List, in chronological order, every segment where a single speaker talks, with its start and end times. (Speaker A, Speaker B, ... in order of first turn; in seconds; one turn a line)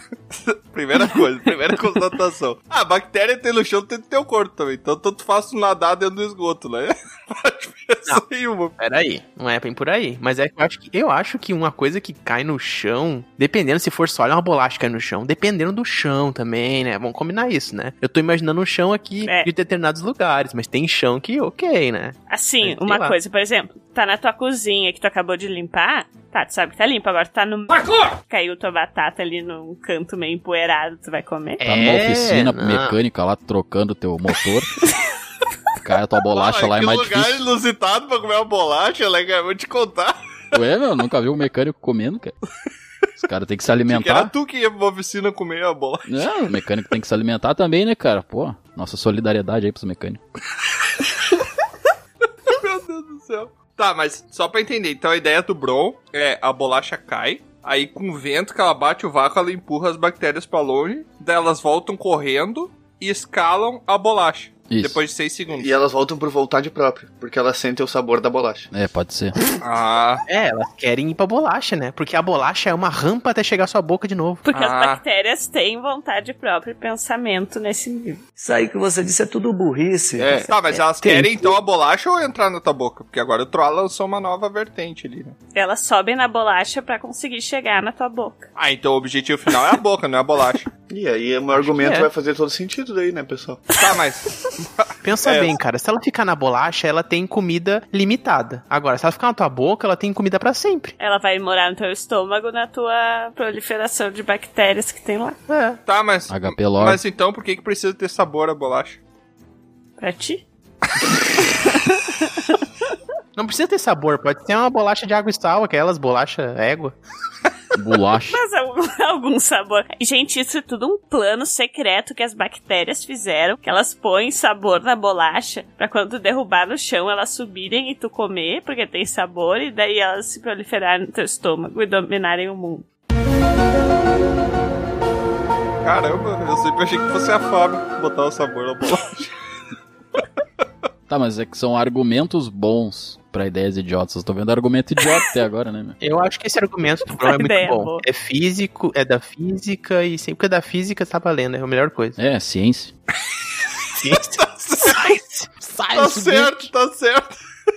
Speaker A: 0.3-8.8
Speaker B: 8.8-23.2
Speaker C: 19.2-19.5
Speaker C: 22.3-31.6
Speaker B: 31.6-33.0
Speaker D: 31.6-34.7
Speaker D: 35.8-37.5
Speaker A: 36.3-40.1
Speaker D: 40.5-42.3
Speaker D: 43.2-44.3
Speaker A: 43.9-46.3
Speaker D: 46.1-50.2
Speaker A: 52.5-65.8
Speaker D: 64.7-65.0
Speaker E: 65.5-68.7
Speaker D: 68.7-69.4
Speaker A: 69.6-70.2
Speaker B: 70.3-74.4
Speaker C: 74.5-78.2
Speaker A: 74.5-75.0
Speaker F: 78.4-80.5
Speaker E: 80.2-80.4
Speaker A: 80.5-85.4
Speaker B: 81.0-81.5
Speaker C: 85.5-88.5
Speaker A: 88.6-90.7
Speaker E: 90.9-93.7
Speaker B: 91.5-92.1
Speaker A: 93.8-95.6
Speaker B: 95.0-101.0
Speaker C: 101.0-105.4
Speaker B: 105.5-105.8
Speaker A: 105.9-109.0
Speaker D: 106.3-107.0
Speaker C: 110.0-110.4
Speaker C: 111.4-112.6
Speaker B: 113.4-117.0
Speaker D: 117.8-118.4
Speaker C: 118.3-132.9
Speaker A: 135.8-139.3
Speaker D: 141.1-146.0
Speaker B: 146.0-152.2
Speaker C: 147.2-148.0
Speaker D: 152.2-152.9
Speaker B: 154.0-156.5
Speaker A: 154.6-155.0
Speaker A: 155.9-157.3
Speaker D: 156.1-156.4